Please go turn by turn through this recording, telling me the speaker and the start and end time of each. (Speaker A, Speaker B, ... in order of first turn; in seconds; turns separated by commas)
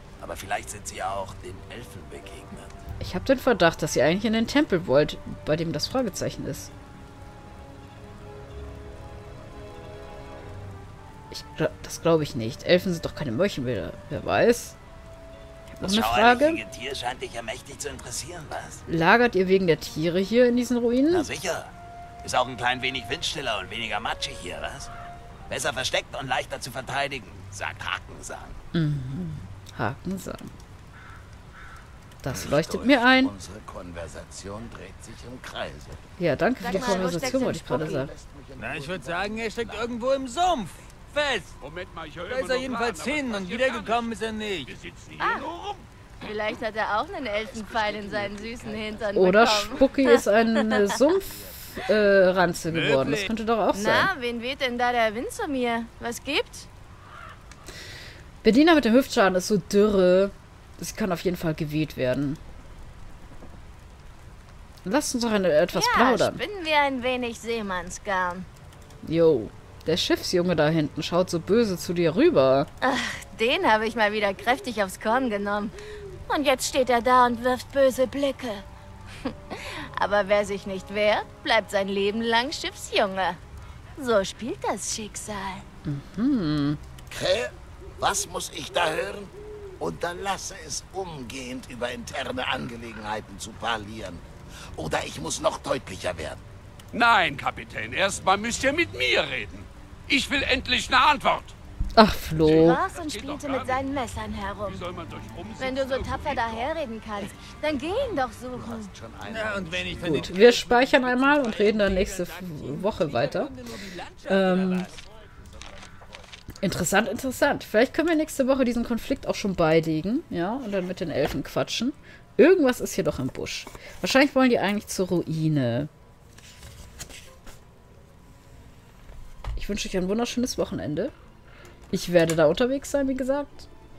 Speaker A: 0.2-2.7, Speaker B: 3.0-6.7, Speaker B: 11.3-14.8, Speaker B: 15.7-16.6, Speaker A: 15.8-18.8, Speaker B: 18.9-21.3, Speaker A: 21.1-21.7, Speaker A: 22.2-24.9, Speaker A: 25.5-28.6, Speaker B: 28.7-30.5, Speaker B: 32.2-33.3, Speaker C: 32.3-36.0, Speaker B: 36.2-38.1, Speaker D: 36.6-38.1, Speaker C: 36.6-40.0, Speaker E: 38.8-41.5, Speaker F: 41.6-45.9, Speaker E: 42.3-44.7, Speaker D: 45.2-45.5, Speaker D: 46.2-50.7, Speaker C: 47.4-49.7, Speaker B: 49.1-54.1, Speaker E: 52.7-53.2, Speaker D: 53.7-56.7, Speaker B: 58.4-62.4, Speaker B: 64.8-66.4, Speaker D: 65.7-68.5, Speaker B: 69.0-72.7, Speaker D: 72.8-75.7, Speaker D: 76.3-78.7, Speaker D: 79.2-83.4, Speaker D: 84.0-85.6, Speaker B: 85.9-86.8, Speaker C: 87.1-96.4, Speaker F: 96.9-101.5, Speaker B: 102.0-102.8, Speaker F: 102.4-103.9, Speaker D: 102.6-104.8, Speaker F: 104.7-106.7, Speaker D: 105.6-108.9, Speaker C: 106.5-110.4, Speaker E: 109.2-113.9, Speaker B: 110.0-113.5, Speaker C: 114.2-116.3, Speaker B: 114.2-115.0, Speaker B: 116.6-125.9, Speaker B: 129.6-131.1, Speaker B: 131.9-133.7